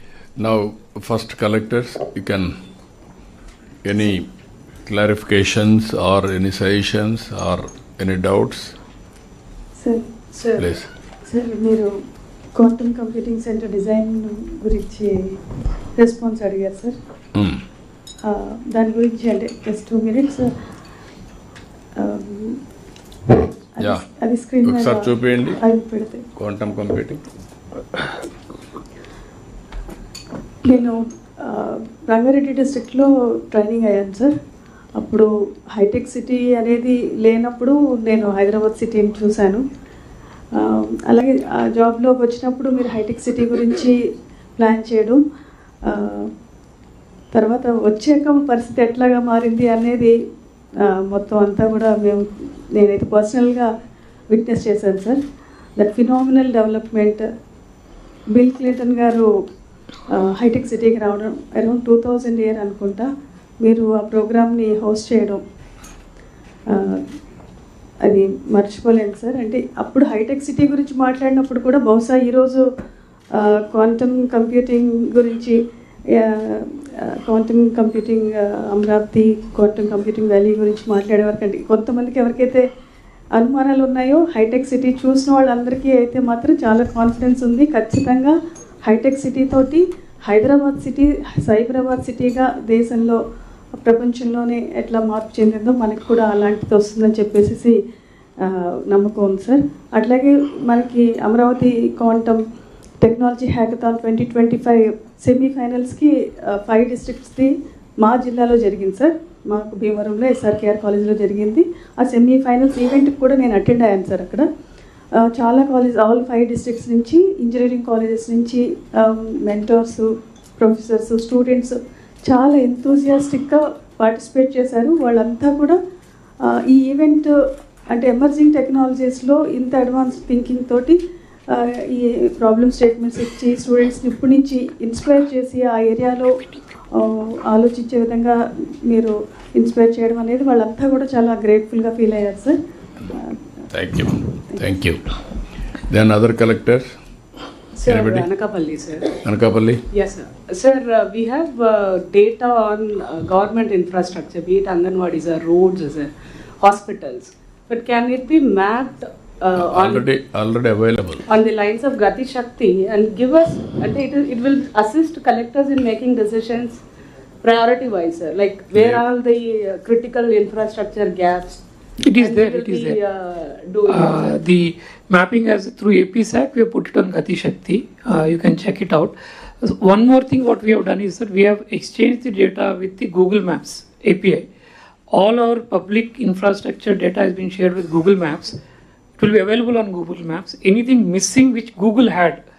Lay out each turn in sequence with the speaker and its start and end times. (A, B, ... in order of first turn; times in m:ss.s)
0:00.4-0:02.5 A
0:03.8-0:04.3 A
0:04.8-0:08.8 A
0:09.8-0:10.1 B
0:10.4-0:10.7 C
0:10.6-0:10.9 A
0:11.2-0:11.9 B
0:12.6-0:15.4 B
0:16.0-0:17.0 B
0:17.4-0:17.6 A
0:18.2-0:20.5 B
0:22.0-0:22.6 B
0:23.3-0:26.2 B
0:24.6-0:25.6 A
0:26.4-0:27.2 A
0:30.6-0:34.3 B
0:35.0-0:39.6 B
0:40.6-0:44.0 B
0:44.6-0:45.2 B
0:45.8-0:46.3 B
0:47.3-0:50.1 B
0:50.8-0:53.7 B
0:54.3-0:55.2 B
0:55.8-0:57.3 B
0:58.3-0:59.3 B
1:00.1-1:03.1 B
1:03.6-1:05.4 B
1:06.7-1:07.0 B
1:08.0-1:12.6 B
1:13.4-1:15.6 B
1:16.2-1:22.6 B
1:23.4-1:33.2 B
1:33.8-1:37.8 B
1:38.4-1:42.4 B
1:43.0-1:54.4 B
1:55.2-2:00.1 B
2:00.6-2:05.8 B
2:06.6-2:07.3 B
2:07.9-2:11.0 B
2:11.5-2:16.4 B
2:16.9-2:22.6 B
2:23.1-2:23.4 B
2:23.7-2:25.0 A
2:25.9-2:26.9 A
2:27.8-2:29.2 C
2:27.8-2:28.2 A
2:29.2-2:29.8 A
2:29.9-2:40.1 C
2:39.7-2:41.2 A
2:41.3-2:46.8 C
2:47.4-2:51.6 C
2:48.8-2:49.0 A
2:52.0-2:53.0 D
2:52.2-2:54.3 C
2:53.8-3:04.4 D
3:05.1-3:08.6 D
3:09.2-3:12.4 D